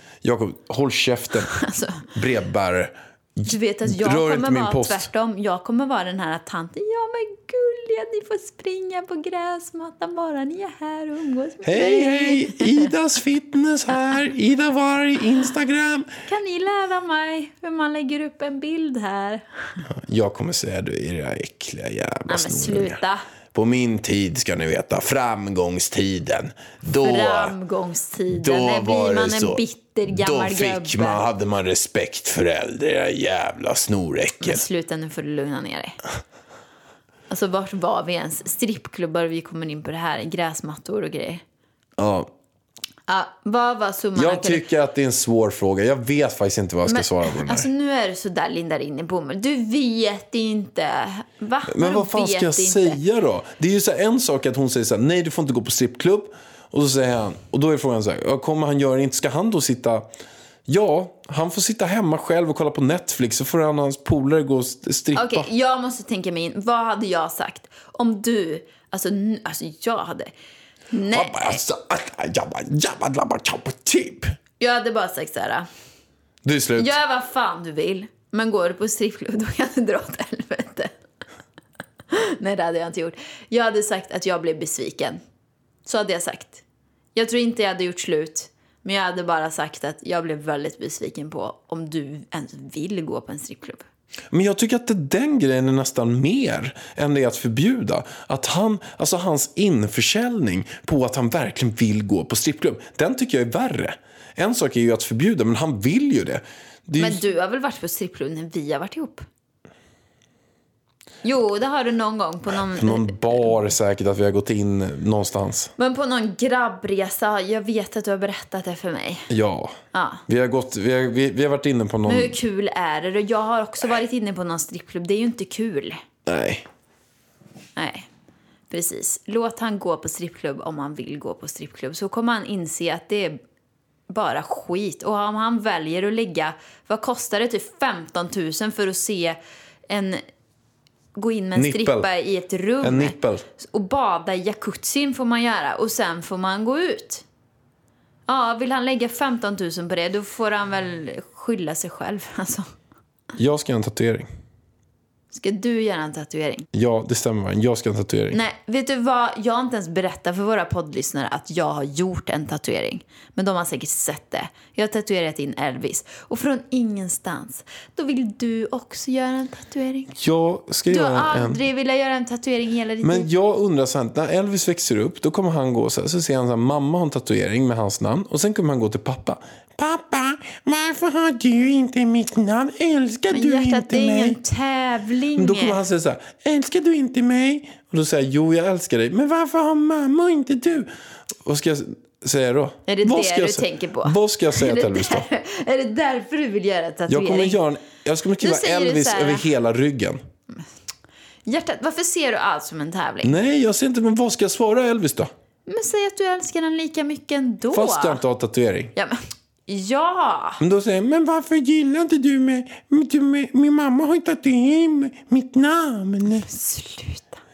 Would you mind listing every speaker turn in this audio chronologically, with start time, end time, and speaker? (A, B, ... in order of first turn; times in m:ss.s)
0:00.2-0:01.6 A
0:01.4-0:02.1 B
0:02.1-0:05.1 A
0:03.4-0:12.9 B
0:11.6-0:16.2 A
0:16.2-0:19.8 B
0:19.9-0:23.0 A
0:22.3-0:23.2 B
0:23.5-0:27.5 A
0:27.0-0:31.3 B
0:28.3-0:29.6 A
0:30.1-0:34.6 A
0:34.4-0:36.0 B
0:37.3-0:41.4 B
0:42.0-0:42.3 A
0:43.1-0:44.6 B
0:44.2-0:47.7 A
0:46.9-0:53.0 B
0:51.7-1:00.1 A
1:00.7-1:05.5 A
1:05.1-1:10.3 B
1:10.9-1:11.6 B
1:11.1-1:14.3 A
1:14.6-1:15.7 B
1:16.4-1:17.0 A
1:16.8-1:20.9 B
1:22.1-1:25.2 B
1:25.8-1:26.6 B
1:27.1-1:33.8 B
1:34.3-1:47.2 A
1:47.0-1:49.2 B
1:51.2-1:53.4 B
1:52.6-1:55.7 A
1:55.8-1:59.3 B
1:59.3-1:59.7 A
1:59.9-2:00.2 B
2:00.3-2:02.4 A
2:02.0-2:06.0 B
2:06.2-2:06.7 A
2:07.8-2:08.1 B
2:08.7-2:13.4 B
2:14.1-2:20.2 B
2:21.2-2:27.2 B
2:21.6-2:22.1 A
2:22.8-2:23.4 A
2:28.3-2:32.7 B
2:33.4-2:34.3 A
2:35.3-2:36.6 B
2:36.7-2:38.4 A
2:38.3-2:50.1 B
2:50.1-2:51.6 A
2:50.9-2:53.3 B
2:53.0-3:04.4 A
3:03.3-3:05.8 B
3:05.4-3:10.9 A
3:11.4-3:15.3 A
3:12.9-3:17.6 B
3:17.1-3:20.2 A
3:18.4-3:19.5 B
3:21.4-3:23.3 B
3:23.2-3:25.3 A
3:25.7-3:28.2 B
3:27.7-3:28.9 A
3:28.9-3:30.6 B
3:30.6-3:36.5 A
3:36.4-3:37.4 B